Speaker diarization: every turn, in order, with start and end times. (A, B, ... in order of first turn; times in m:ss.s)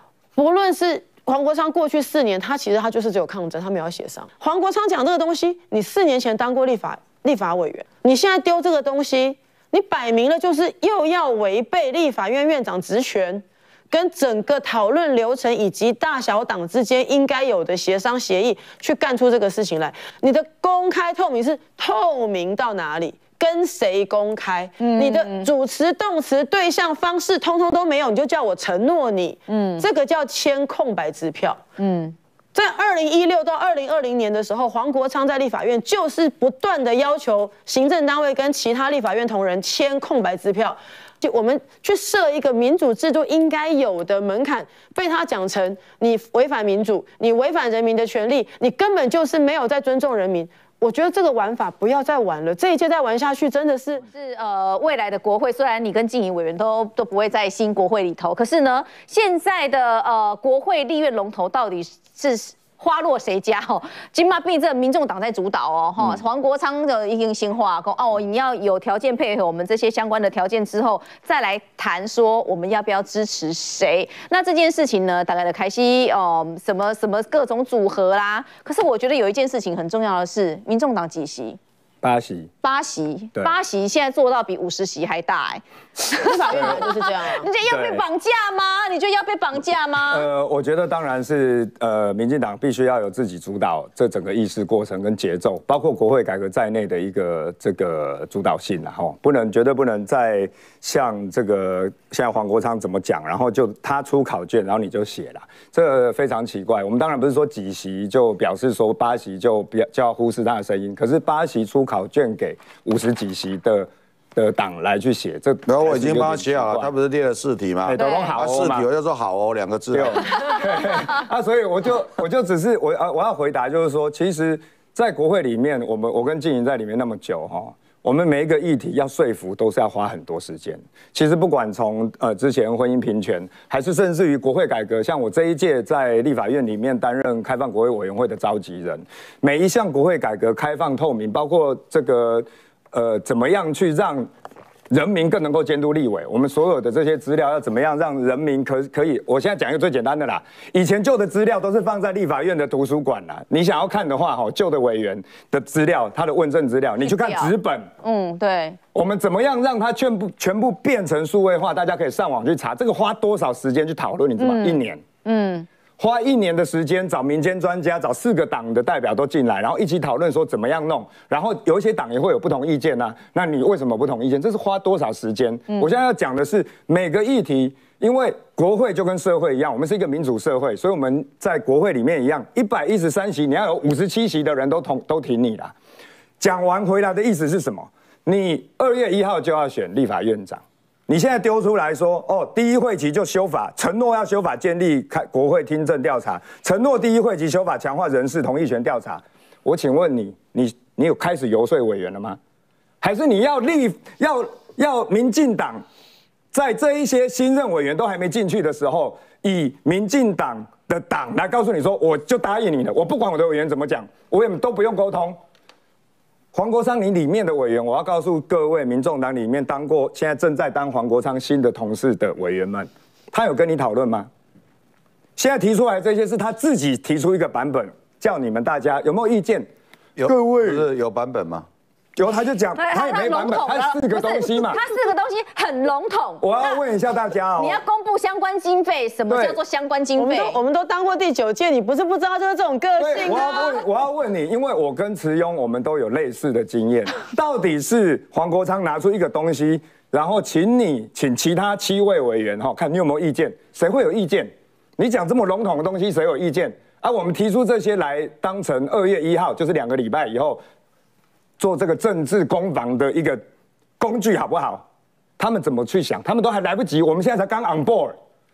0:00.4-0:31.6 A
0:24.8-0:25.5 B
0:29.5-0:29.8 B
0:31.8-0:32.2 B
0:32.5-0:54.0 A
0:54.1-1:21.6 B
1:22.0-1:22.5 C
1:22.6-1:30.3 B
1:26.2-1:27.5 A
1:27.7-1:28.0 C
1:30.1-1:56.9 C
1:55.7-2:00.4 D
1:57.8-1:58.9 C
1:57.9-1:58.4 B
1:59.9-2:24.3 C
2:00.4-2:01.0 B
2:24.9-2:37.9 C
2:37.0-2:38.8 B
2:38.9-2:45.0 C
2:44.4-2:45.7 B
2:46.0-3:05.7 C
3:06.4-3:22.4 C
3:23.0-3:25.8 C
3:26.5-3:35.4 C
3:36.5-3:44.3 C
3:45.4-3:49.7 C
3:50.2-3:51.7 D
3:50.2-3:50.8 C
3:52.2-3:54.8 C
3:52.8-3:56.8 B
3:56.4-3:57.8 C
3:57.6-4:00.6 B
3:59.3-3:59.6 C
4:00.2-4:03.8 A
4:03.0-4:20.6 C
4:21.6-4:23.4 C
4:24.0-4:24.8 C
4:25.4-4:28.2 C